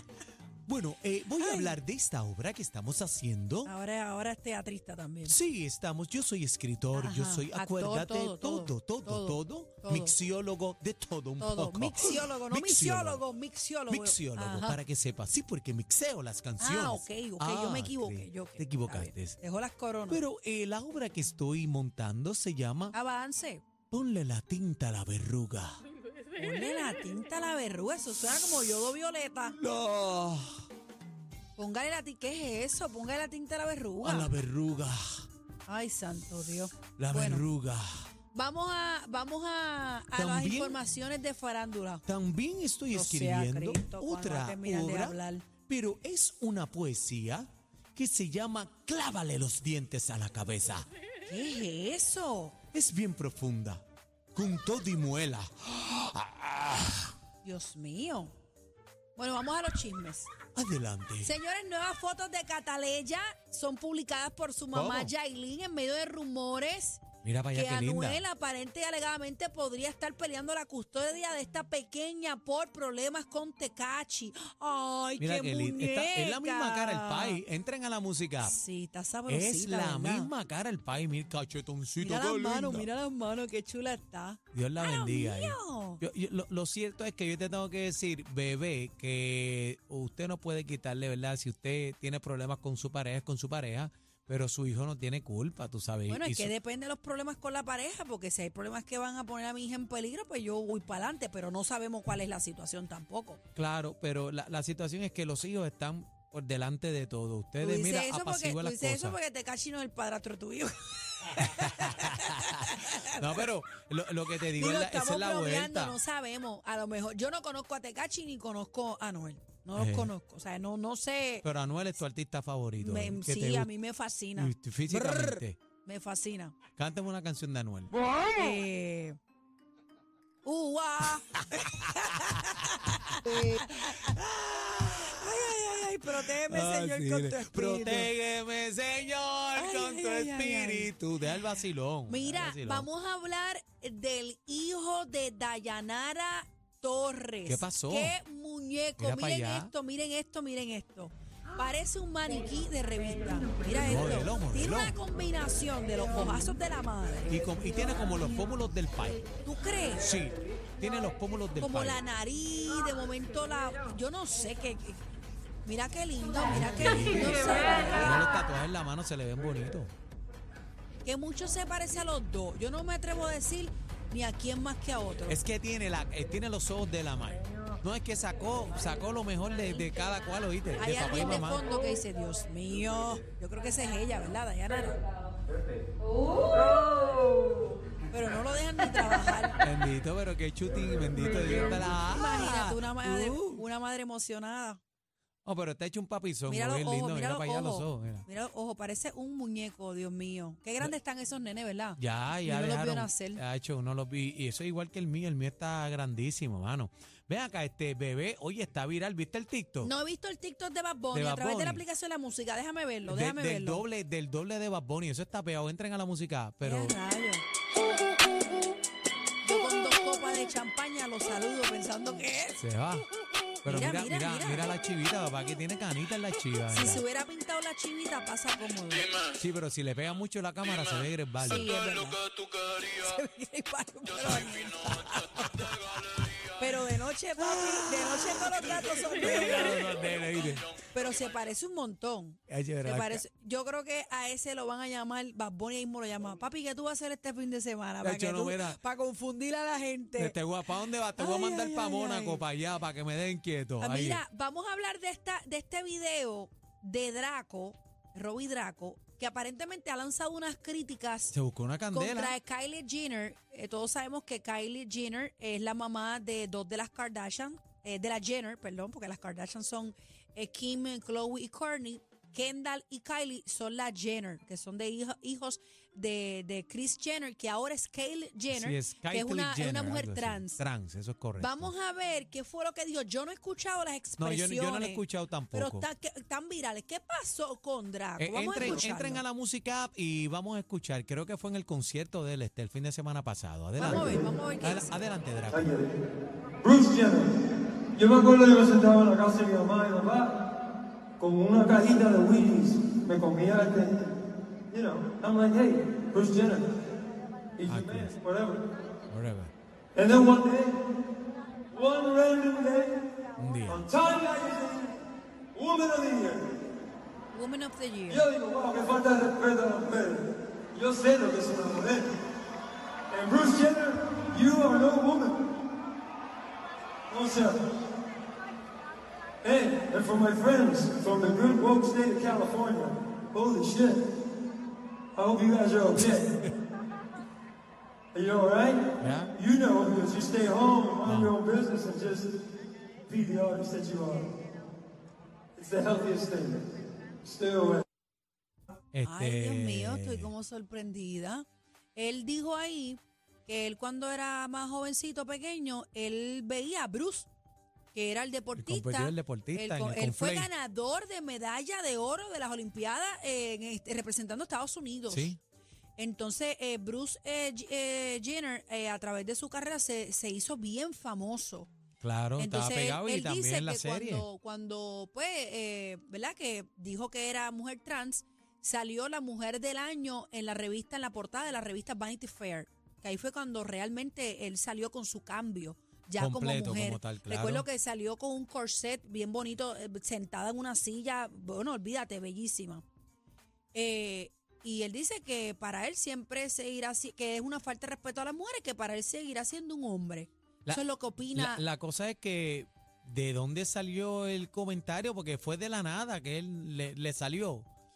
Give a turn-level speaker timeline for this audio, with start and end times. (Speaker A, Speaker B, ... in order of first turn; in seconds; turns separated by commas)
Speaker A: 0.7-3.7, Speaker B: 1.4-1.8, Speaker B: 3.6-5.4, Speaker A: 5.3-13.2, Speaker B: 6.9-10.2, Speaker B: 11.4-14.8, Speaker A: 13.9-19.4, Speaker B: 16.6-20.2, Speaker A: 20.1-23.0, Speaker B: 22.9-23.6, Speaker A: 23.9-25.8, Speaker B: 26.4-29.6, Speaker A: 29.5-30.6, Speaker B: 31.6-34.3, Speaker A: 34.0-35.3, Speaker B: 35.7-37.5, Speaker A: 37.0-38.0, Speaker B: 38.3-42.0, Speaker A: 40.1-40.8, Speaker A: 42.1-50.9, Speaker B: 42.9-45.5, Speaker B: 51.2-52.6, Speaker A: 52.7-57.1, Speaker B: 57.4-58.3, Speaker B: 59.1-60.3, Speaker A: 60.5-61.3, Speaker B: 61.2-77.4, Speaker A: 64.7-65.1, Speaker A: 67.2-68.2, Speaker A: 75.2-78.5, Speaker B: 78.4-80.3, Speaker A: 79.3-82.9, Speaker B: 82.0-86.0, Speaker A: 84.5-96.5, Speaker B: 96.1-103.4, Speaker A: 103.5-109.2, Speaker B: 107.6-113.4, Speaker A: 111.3-116.0, Speaker B: 114.5-121.5, Speaker A: 119.8-120.1, Speaker A: 121.4-123.7, Speaker B: 122.8-126.6, Speaker A: 124.3-125.6, Speaker A: 126.8-128.0, Speaker B: 128.3-129.2, Speaker B: 130.4-134.2, Speaker A: 131.4-142.9, Speaker B: 134.9-138.1, Speaker B: 139.6-157.4, Speaker A: 147.5-148.2, Speaker A: 149.0-149.7, Speaker A: 153.8-155.0, Speaker A: 157.3-159.3, Speaker B: 159.4-160.1, Speaker A: 160.0-162.0, Speaker B: 161.6-165.0, Speaker B: 165.6-168.2, Speaker A: 166.5-169.9, Speaker B: 171.0-175.4, Speaker A: 175.3-181.7, Speaker B: 180.8-185.0, Speaker B: 186.2-187.2, Speaker B: 188.1-189.6, Speaker A: 189.6-193.6, Speaker B: 192.1-194.8, Speaker A: 195.4-198.3, Speaker B: 196.5-203.4, Speaker A: 202.0-209.9, Speaker B: 209.8-213.8, Speaker A: 211.1-211.8, Speaker A: 213.1-217.0, Speaker B: 216.6-217.4, Speaker B: 219.4-222.6, Speaker A: 222.6-223.1, Speaker A: 223.6-227.0, Speaker B: 223.7-224.7, Speaker B: 226.7-229.1, Speaker A: 229.3-231.7, Speaker B: 231.4-236.0, Speaker A: 234.9-235.2, Speaker B: 236.6-239.9, Speaker A: 237.4-240.7, Speaker B: 240.9-250.4, Speaker A: 242.5-243.2, Speaker A: 248.0-248.8, Speaker A: 250.2-254.2, Speaker B: 251.1-252.4, Speaker B: 253.8-261.4, Speaker A: 261.3-262.4, Speaker B: 261.9-280.6, Speaker A: 278.5-281.7, Speaker B: 281.4-289.2, Speaker A: 284.2-285.9, Speaker A: 288.2-295.7, Speaker B: 293.8-295.0, Speaker C: 293.8-294.3, Speaker C: 295.5-295.9, Speaker C: 296.6-297.4, Speaker C: 298.0-300.4, Speaker C: 301.2-304.2, Speaker C: 304.7-306.7, Speaker C: 307.6-308.6, Speaker A: 307.7-308.1, Speaker A: 309.1-309.5, Speaker C: 309.9-310.8, Speaker C: 311.7-313.1, Speaker A: 313.4-313.9, Speaker C: 313.7-315.0, Speaker C: 315.5-316.6, Speaker B: 317.3-318.3, Speaker C: 318.1-322.1, Speaker C: 323.1-325.4, Speaker C: 327.1-327.6, Speaker C: 329.4-334.0, Speaker C: 335.1-336.3, Speaker A: 336.0-336.5, Speaker C: 338.1-342.3, Speaker A: 339.0-339.4, Speaker A: 341.0-341.4, Speaker C: 343.1-344.3, Speaker C: 345.6-346.6, Speaker C: 347.2-347.8, Speaker A: 348.9-350.3, Speaker B: 349.1-351.4, Speaker B: 351.9-357.3, Speaker B: 357.9-365.3, Speaker A: 358.6-360.5, Speaker A: 365.1-365.4, Speaker B: 366.0-371.7, Speaker A: 372.0-374.3, Speaker B: 372.4-392.9, Speaker A: 386.2-387.7, Speaker B: 393.7-401.6, Speaker A: 400.7-407.7